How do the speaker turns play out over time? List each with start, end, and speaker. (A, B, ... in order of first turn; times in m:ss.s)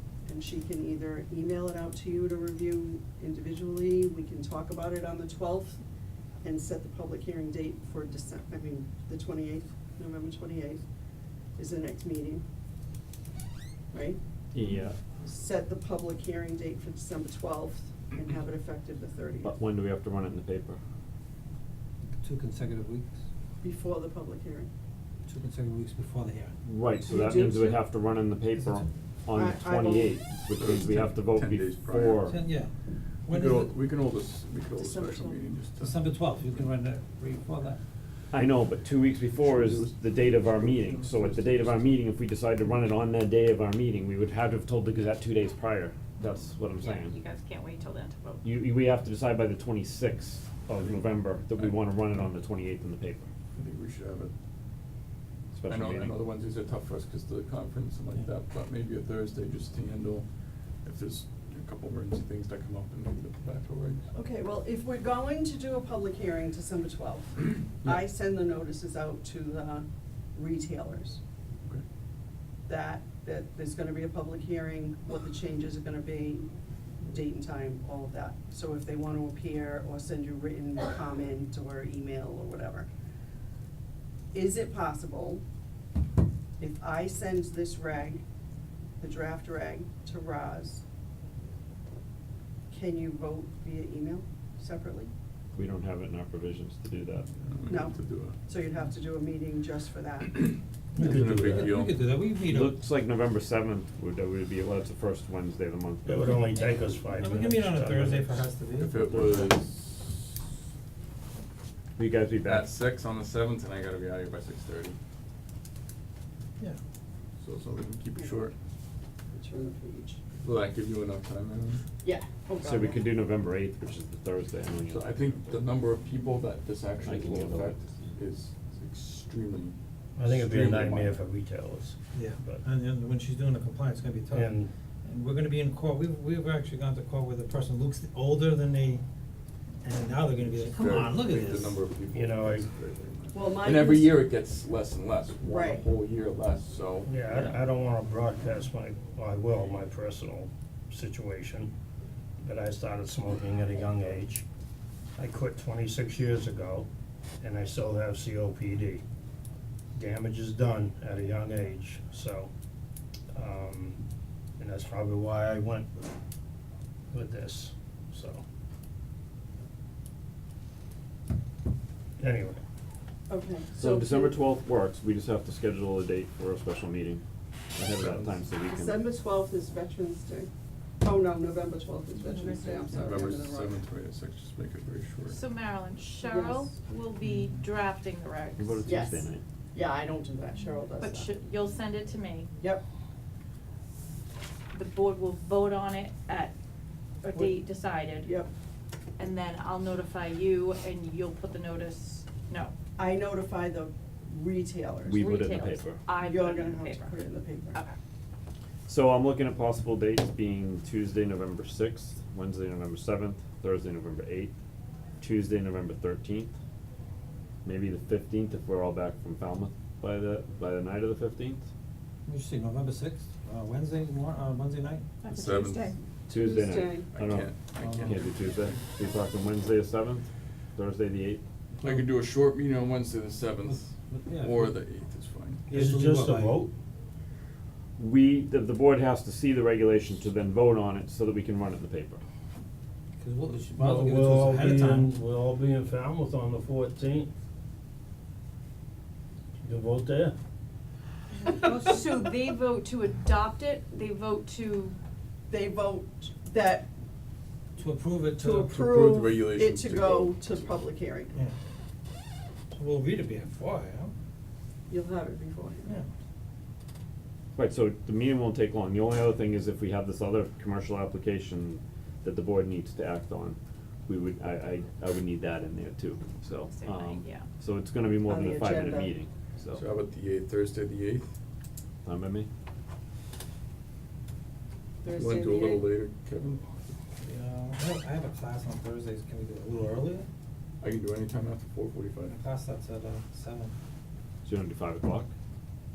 0:00.3-0:05.8 A
0:06.4-0:10.8 A
0:11.6-0:12.4 A
0:13.9-0:14.2 A
0:14.5-0:15.0 B
0:15.2-0:19.6 A
0:19.4-0:20.8 B
0:22.2-0:23.1 C
0:23.6-0:24.7 A
0:25.3-0:26.6 C
0:26.6-0:32.4 B
0:27.0-0:27.8 A
0:29.3-0:30.2 A
0:30.6-0:32.3 D
0:32.2-0:32.8 C
0:33.3-0:33.7 C
0:33.3-0:36.6 D
0:34.8-0:35.4 A
0:35.8-0:37.8 C
0:38.3-0:47.2 B
0:39.4-0:42.0 D
0:46.8-0:48.4 E
0:48.4-0:53.3 B
0:53.6-0:54.3 D
0:55.5-0:56.1 B
0:55.7-1:00.3 D
1:00.8-1:04.1 D
1:04.1-1:11.2 A
1:12.7-1:16.5 A
1:17.1-1:22.9 A
1:24.3-1:25.4 A
1:26.6-1:28.2 A
1:29.0-1:30.8 A
1:32.7-1:35.1 A
1:35.5-1:37.3 B
1:37.4-1:38.4 D
1:37.7-1:40.6 A
1:41.0-1:41.7 F
1:41.0-1:42.8 C
1:41.0-1:42.0 D
1:42.4-1:46.5 B
1:46.0-1:48.4 F
1:47.0-1:48.9 C
1:48.8-1:50.3 D
1:49.0-1:49.5 B
1:52.0-1:52.7 B
1:52.4-1:55.0 D
1:57.4-1:58.5 D
1:58.2-1:58.5 A
1:59.3-2:00.2 A
2:00.4-2:01.8 D
2:02.0-2:03.1 A
2:02.6-2:05.1 B
2:04.9-2:11.2 D
2:07.0-2:07.8 B
2:10.2-2:12.6 F
2:12.1-2:19.0 C
2:14.3-2:14.7 F
2:19.8-2:21.9 C
2:20.4-2:27.5 D
2:22.1-2:22.7 F
2:23.3-2:24.2 A
2:25.5-2:25.8 A
2:27.1-2:31.7 F
2:32.4-2:34.4 F
2:35.2-2:36.9 F
2:37.4-2:39.0 F
2:40.0-2:42.5 F
2:43.3-2:44.0 F
2:44.6-2:46.0 F
2:47.1-2:48.4 F
2:52.2-2:52.6 F
2:53.3-2:54.4 A
2:53.8-2:57.2 B
2:57.8-2:59.0 B
2:58.6-3:03.8 A
3:02.2-3:03.1 E
3:02.9-3:05.4 D
3:05.3-3:09.2 E
3:06.2-3:06.7 A
3:08.6-3:09.4 B
3:08.8-3:11.3 A
3:11.0-3:12.5 E
3:14.7-3:16.6 E
3:17.2-3:17.6 A
3:17.3-3:18.3 E
3:18.2-3:18.5 A
3:19.2-3:22.8 E
3:23.0-3:25.4 A
3:25.1-3:26.0 B
3:25.2-3:27.2 E
3:26.2-3:27.8 A
3:28.9-3:34.5 B
3:35.2-3:36.5 B
3:37.6-3:41.7 B
3:42.3-3:45.0 C
3:45.2-3:46.0 E
3:45.2-3:46.0 D
3:46.3-3:51.4 B
3:46.3-3:47.1 A
3:47.1-3:48.8 D
3:47.8-3:48.1 C
3:51.8-3:55.8 D
3:54.1-3:54.7 C
3:55.7-3:56.7 C
3:55.7-3:56.7 F
3:58.0-4:02.2 B
4:03.2-4:05.1 C
4:03.8-4:07.3 F
4:09.6-4:10.4 F
4:11.4-4:15.0 E
4:15.5-4:16.9 A
4:17.8-4:18.8 C
4:18.4-4:21.4 A
4:18.7-4:20.7 D
4:22.7-4:24.1 C
4:24.9-4:26.0 A
4:27.6-4:39.8 B
4:36.7-4:37.5 E
4:38.3-4:39.2 A
4:39.8-4:41.3 D
4:42.0-4:42.5 B
4:45.0-4:45.9 A
4:45.1-4:47.0 D
4:47.2-4:50.3 C
4:50.8-4:52.4 D
4:52.3-4:53.7 C
4:54.4-4:55.3 B